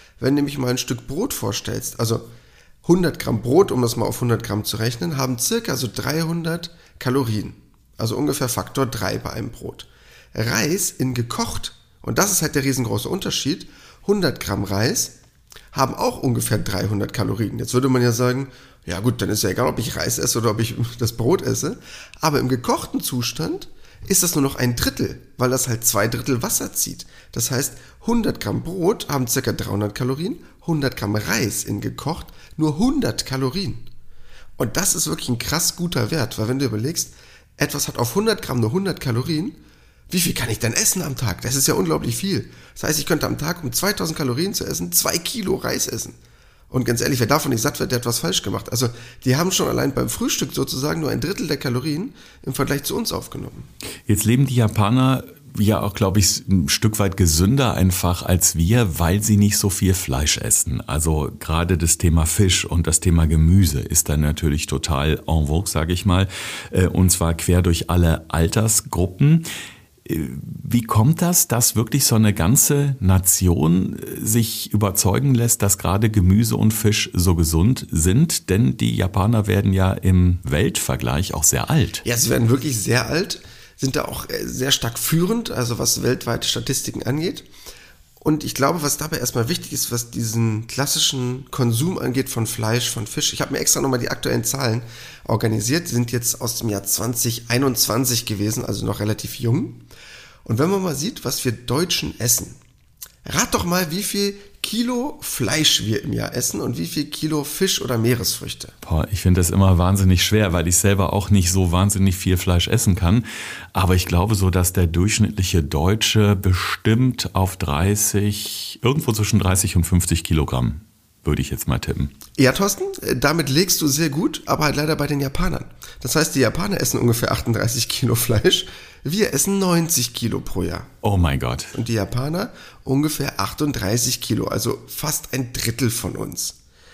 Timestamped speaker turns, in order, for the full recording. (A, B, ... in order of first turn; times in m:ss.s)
0:00.2-0:02.3 A
0:02.8-0:15.1 A
0:15.7-0:33.9 A
0:34.6-0:46.2 A
0:46.7-0:53.7 A
0:54.1-1:09.4 B
1:10.0-1:22.0 B
1:22.0-1:27.5 A
1:28.2-1:39.8 A
1:40.4-1:42.6 A
1:43.2-1:48.7 A
1:48.8-2:02.1 B
2:02.4-2:10.9 A
2:11.0-2:11.7 B
2:11.7-2:16.6 A